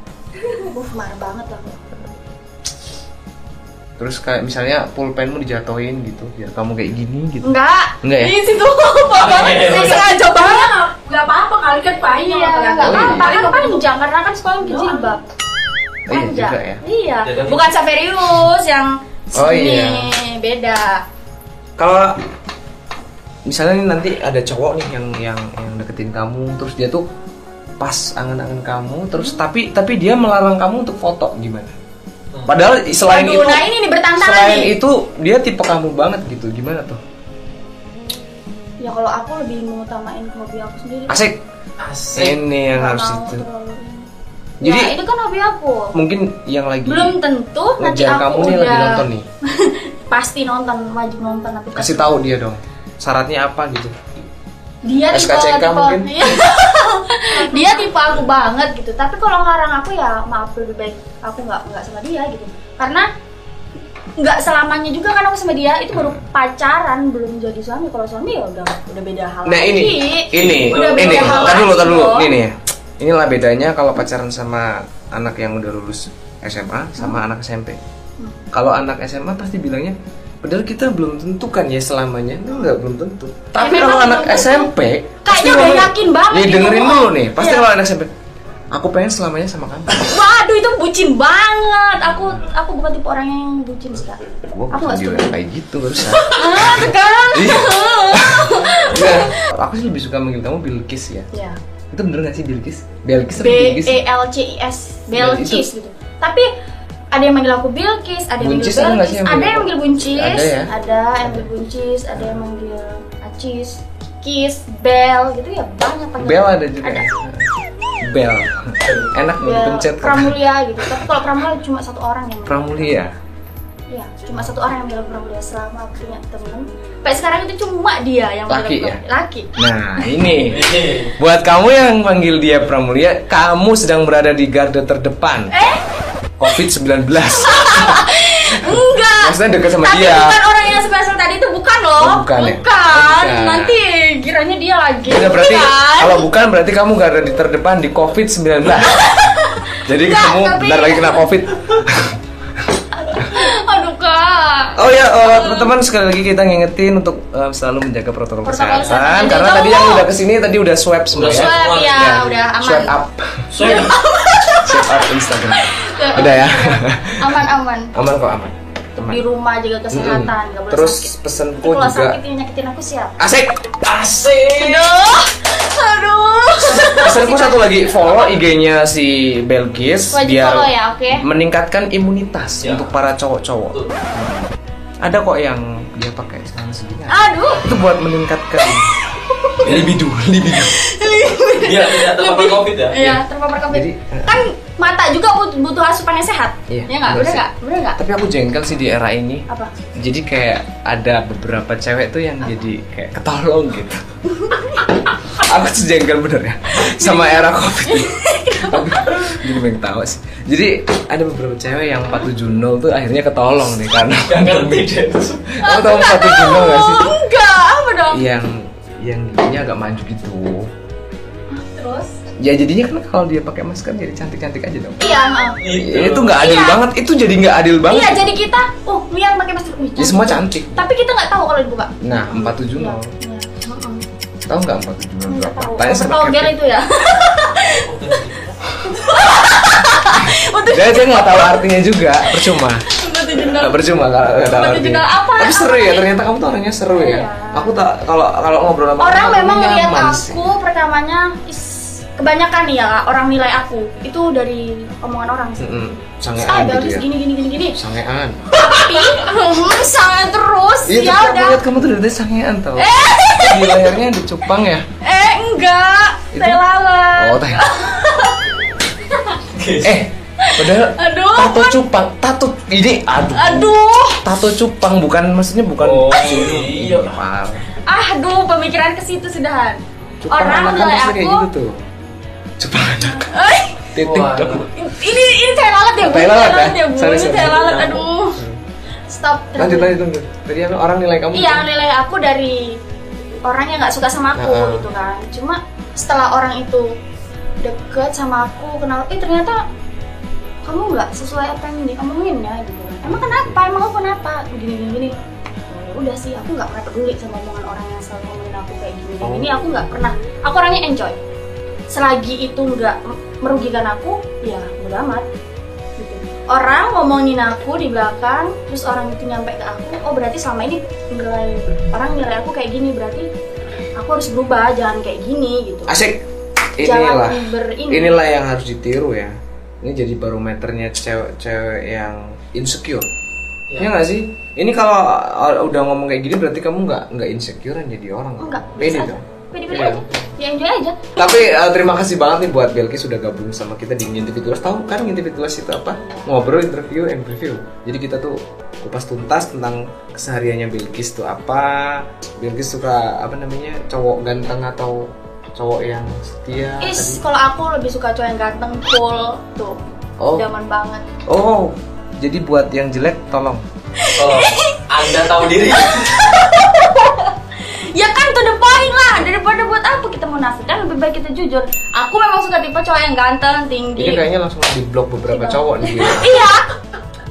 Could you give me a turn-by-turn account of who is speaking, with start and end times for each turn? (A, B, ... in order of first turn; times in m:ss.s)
0:00.5-0:01.9 A
0:04.0-0:08.4 B
0:07.4-0:10.8 A
0:09.1-0:10.0 C
0:09.4-0:13.9 D
0:12.0-0:15.2 A
0:12.8-0:13.4 B
0:14.6-0:15.2 D
0:16.1-0:16.8 B
0:16.1-0:21.0 A
0:17.2-0:17.7 C
0:19.3-0:20.1 B
0:21.8-0:22.2 B
0:23.4-0:27.0 B
0:27.8-0:31.7 B
0:32.4-0:33.6 B
0:33.1-0:34.7 A
0:34.2-0:37.0 B
0:38.8-0:41.2 A
0:41.1-0:41.4 B
0:41.8-0:42.4 C
0:42.1-0:43.4 B
0:42.7-0:44.1 A
0:44.6-0:44.9 B
0:44.6-0:45.9 A
0:45.9-0:47.2 B
0:46.8-0:52.2 A
0:47.8-0:49.3 B
0:51.8-0:53.9 B
0:54.8-1:03.1 A
0:55.1-0:56.4 B
0:57.3-0:57.9 D
1:04.2-1:12.4 A
1:05.9-1:06.2 B
1:09.4-1:17.8 B
1:10.3-1:11.6 C
1:18.5-1:28.1 B
1:23.6-1:24.7 A
1:25.2-1:27.6 A
1:28.7-1:30.1 B
1:30.0-1:34.2 A
1:34.5-1:41.3 B
1:34.7-1:35.3 A
1:36.2-1:39.4 A
1:41.3-1:41.6 A
1:41.9-1:44.0 B
1:43.4-1:46.5 A
1:45.1-1:45.7 B
1:47.1-1:57.1 A
1:48.4-1:50.7 B
1:56.2-2:01.1 B
1:58.8-1:59.1 C
1:59.4-2:03.0 A
2:02.4-2:03.1 B
2:03.9-2:09.5 A
2:08.5-2:09.0 B
2:09.6-2:15.5 B
2:10.5-2:11.1 C
2:15.5-2:15.8 A
2:16.4-2:18.1 B
2:17.4-2:26.3 A
2:18.6-2:20.4 B
2:22.0-2:23.8 B
2:25.1-2:29.2 B
2:28.8-2:31.3 A
2:29.8-2:32.2 B
2:32.9-2:35.7 A
2:34.7-2:43.6 B
2:38.4-2:40.0 A
2:41.1-2:42.4 C
2:41.3-2:43.0 A
2:43.5-2:44.0 C
2:43.6-2:47.9 A
2:44.6-2:49.2 B
2:49.0-2:53.2 A
2:49.9-2:52.2 B
2:53.2-2:53.9 B
2:53.8-2:54.9 C
2:54.5-2:58.0 A
2:56.6-3:04.5 B
3:00.1-3:01.2 A
3:02.6-3:02.9 C
3:05.0-3:08.9 B
3:07.1-3:07.7 A
3:09.3-3:09.6 A
3:09.6-3:09.9 C
3:09.6-3:10.8 B
3:10.5-3:18.0 A
3:11.6-3:13.0 C
3:13.0-3:14.4 B
3:16.7-3:17.4 B
3:18.0-3:24.0 B
3:24.3-3:24.9 A
3:25.2-3:37.2 B
3:26.7-3:29.6 A
3:34.3-3:35.5 C
3:35.6-3:38.2 A
3:38.1-3:40.7 B
3:41.5-3:42.2 A
3:42.4-3:48.3 B
3:45.0-3:45.6 A
3:45.6-3:46.4 C
3:46.4-3:46.8 A
3:47.9-3:54.0 A
3:50.0-3:50.8 B
3:52.0-3:53.1 B
3:54.5-3:56.5 B
3:55.3-3:57.9 A
3:57.8-3:58.6 C
3:58.8-4:01.6 A
4:00.2-4:02.8 B
4:02.3-4:03.8 A
4:03.4-4:10.5 B
4:04.4-4:06.1 A
4:06.9-4:07.8 A
4:09.0-4:17.8 A
4:15.6-4:17.1 B
4:17.7-4:18.7 B
4:18.5-4:21.6 A
4:20.9-4:24.8 B
4:22.8-4:23.9 A
4:25.0-4:28.5 A
4:26.3-4:26.6 B
4:27.2-4:27.7 B
4:29.5-4:30.0 C
4:29.8-4:37.6 B
4:30.4-4:31.8 A
4:33.3-4:34.2 A
4:35.8-4:37.2 C
4:37.9-4:41.5 A
4:40.2-4:41.8 B
4:42.6-4:43.3 B
4:43.2-4:43.9 A
4:43.9-4:44.7 B
4:44.0-4:44.7 C
4:44.7-4:48.4 A
4:46.0-4:48.6 B
4:49.1-4:50.0 A
4:49.6-4:51.7 B
4:51.3-4:52.8 A
4:53.4-4:56.9 A
4:54.3-4:54.9 B
4:57.6-4:59.6 A
5:00.6-5:05.1 A
5:03.0-5:03.6 B
5:05.7-5:11.2 A
5:09.2-5:09.8 B
5:11.9-5:15.2 A
5:16.0-5:23.3 A
5:24.0-5:26.0 A
5:25.9-5:26.2 B
5:26.8-5:33.1 B
5:26.8-5:28.2 A
5:33.8-5:40.0 B
5:38.4-5:41.3 A
5:41.2-5:57.2 B
5:45.9-5:46.3 A
5:56.8-5:59.8 A
6:00.2-6:00.5 B
6:00.3-6:01.0 A
6:01.3-6:03.6 B
6:04.0-6:14.2 A
6:04.2-6:06.3 C
6:14.0-6:16.5 B
6:15.3-6:16.7 A